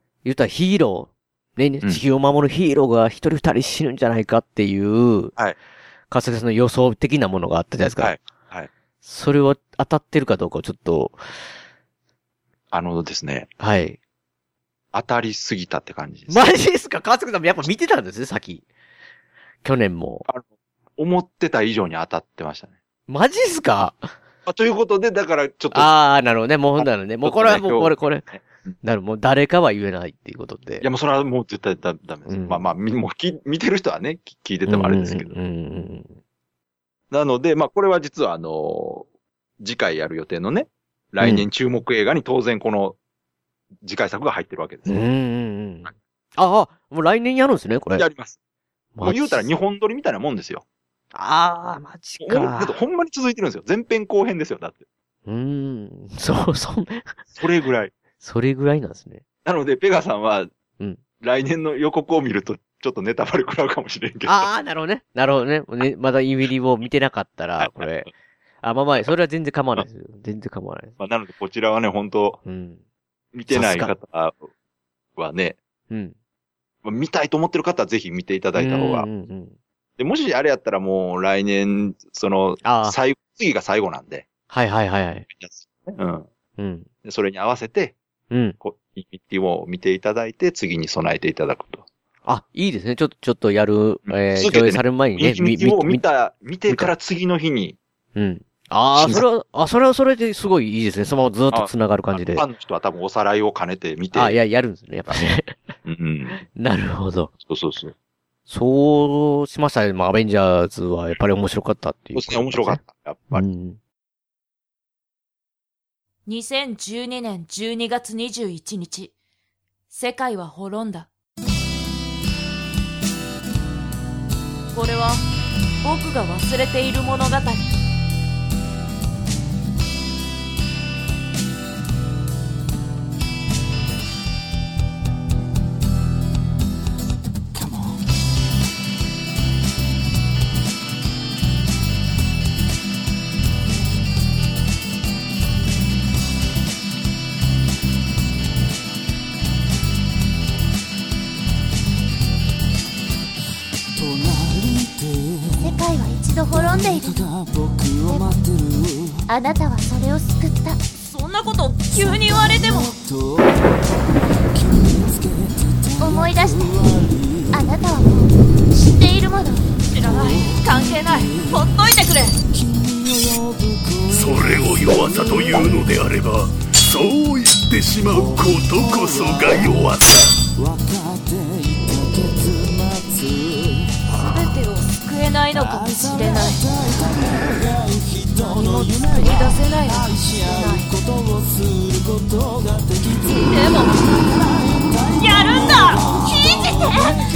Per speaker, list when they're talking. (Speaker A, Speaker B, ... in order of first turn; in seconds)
Speaker A: 0.2-5.4, 6.1-8.2, 9.0-11.2, 13.6-14.0, 16.3-18.6, 19.6-20.3, 23.1-24.1, 25.7-28.3, 28.8-30.9, 32.3-32.7, 34.7-36.2, 41.2-41.5, 44.9-48.1, 49.0-49.5, 51.1-52.8, 55.3-57.2, 58.2-59.2, 64.2-68.1, 68.6-71.0, 72.5-72.8, 73.5-73.9, 75.9-76.2, 78.6-79.5, 82.6-83.0, 84.5-85.3, 86.6-86.9, 88.3-88.6, 92.3-96.0, 98.2-102.5, 104.1-105.7, 106.5-107.3, 108.5-113.8
Speaker B: 8.0-8.7, 12.7-13.5, 14.9-16.5, 21.0-22.8, 24.5-25.9, 26.8-28.8, 30.8-35.3, 37.1-39.1, 39.6-43.0, 43.8-45.0, 48.0-48.4, 49.0-50.6, 52.2-54.8, 57.4-57.9, 59.5-60.5, 61.2-64.5, 67.6-67.9, 71.0-72.4, 73.3-74.5, 75.2-75.6, 76.8-79.1, 80.0-84.3, 85.3-86.3, 87.0-88.0, 88.6-91.9, 94.1-97.8, 99.0-99.2, 101.5-104.4, 105.8-106.4, 107.5-107.9, 112.2-113.5
Speaker C: 116.3-119.1, 119.9-121.1, 124.7-125.2, 125.8-127.7, 161.0-163.0, 169.9-172.4, 184.1-186.7, 188.3-191.0, 193.2-194.1, 195.1-197.2
Speaker D: 155.6-157.2, 158.1-158.4, 159.3-160.8, 166.0-169.8
Speaker E: 174.1-180.3